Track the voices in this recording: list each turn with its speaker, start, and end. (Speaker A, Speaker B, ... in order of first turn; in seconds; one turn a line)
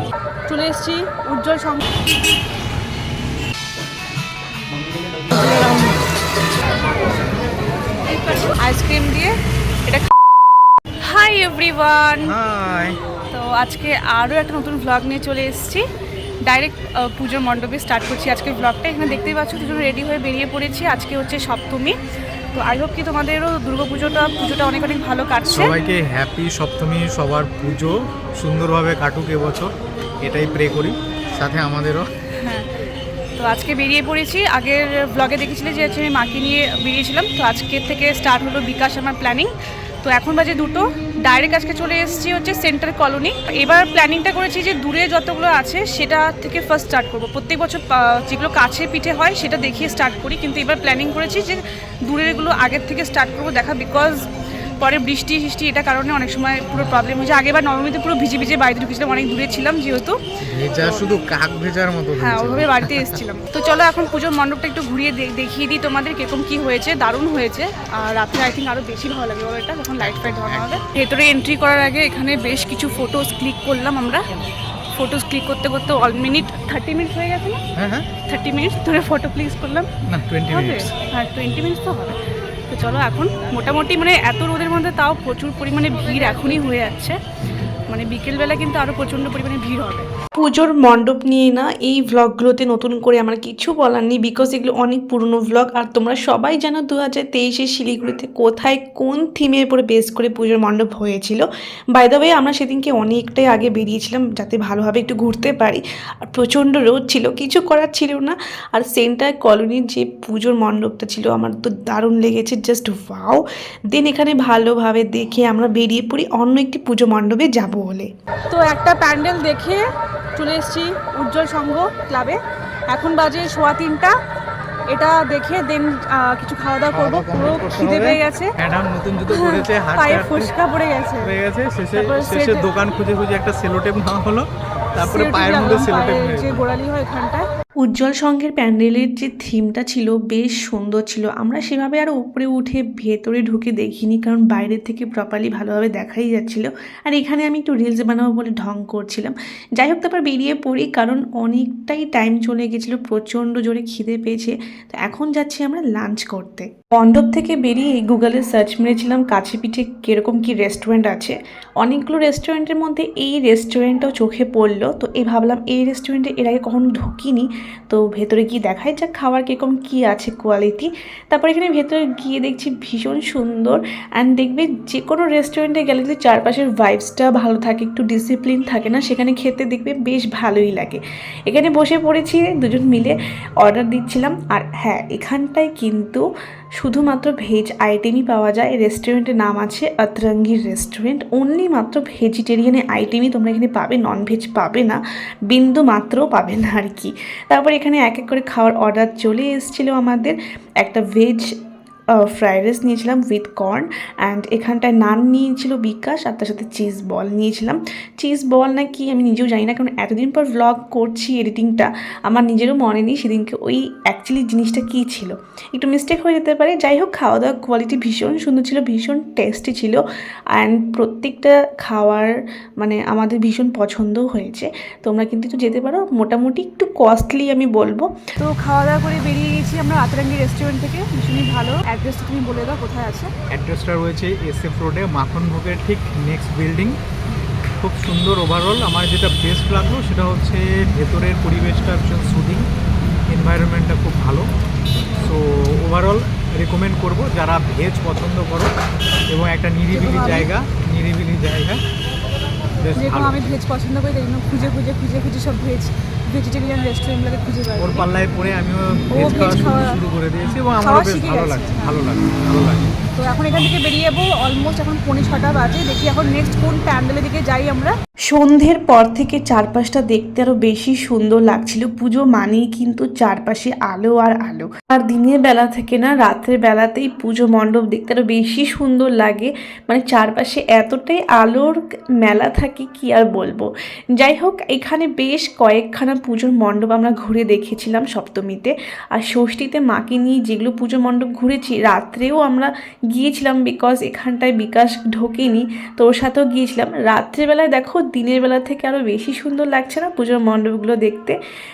Speaker A: 0.5-1.8
Speaker B: 5.3-5.9
Speaker A: 8.1-10.1
Speaker A: 11.0-12.3
Speaker B: 12.2-13.0
Speaker A: 13.3-15.8
Speaker A: 16.4-22.0
Speaker A: 22.5-25.7
Speaker B: 25.5-29.7
Speaker B: 30.2-32.1
Speaker A: 32.4-32.7
Speaker A: 33.4-39.5
Speaker A: 40.0-54.3
Speaker A: 54.8-60.2
Speaker B: 60.5-63.2
Speaker A: 60.8-61.0
Speaker A: 62.2-74.2
Speaker B: 70.0-70.8
Speaker A: 74.9-77.6
Speaker B: 77.8-78.1
Speaker A: 78.3-79.9
Speaker B: 80.1-80.9
Speaker A: 80.5-87.2
Speaker A: 87.9-90.1
Speaker C: 90.4-118.1
Speaker A: 118.5-119.8
Speaker A: 120.4-122.4
Speaker A: 122.9-124.2
Speaker A: 124.9-128.5
Speaker B: 126.9-130.5
Speaker A: 129.3-131.3
Speaker B: 131.2-136.6
Speaker A: 131.9-132.8
Speaker A: 135.0-137.4
Speaker C: 137.8-186.2
Speaker C: 186.8-201.5
Speaker C: 202.2-220.0
Speaker C: 220.6-228.2
Speaker A: 228.4-233.3
Speaker B: 233.5-237.0
Speaker B: 237.8-242.7
Speaker B: 243.3-244.5
Speaker B: 245.2-248.7
Speaker B: 249.3-251.8
Speaker A: 249.9-250.5
Speaker B: 252.8-253.5
Speaker A: 252.9-258.1
Speaker B: 257.8-262.9
Speaker A: 259.1-260.0
Speaker A: 260.7-262.0
Speaker A: 263.2-267.9
Speaker C: 268.3-301.4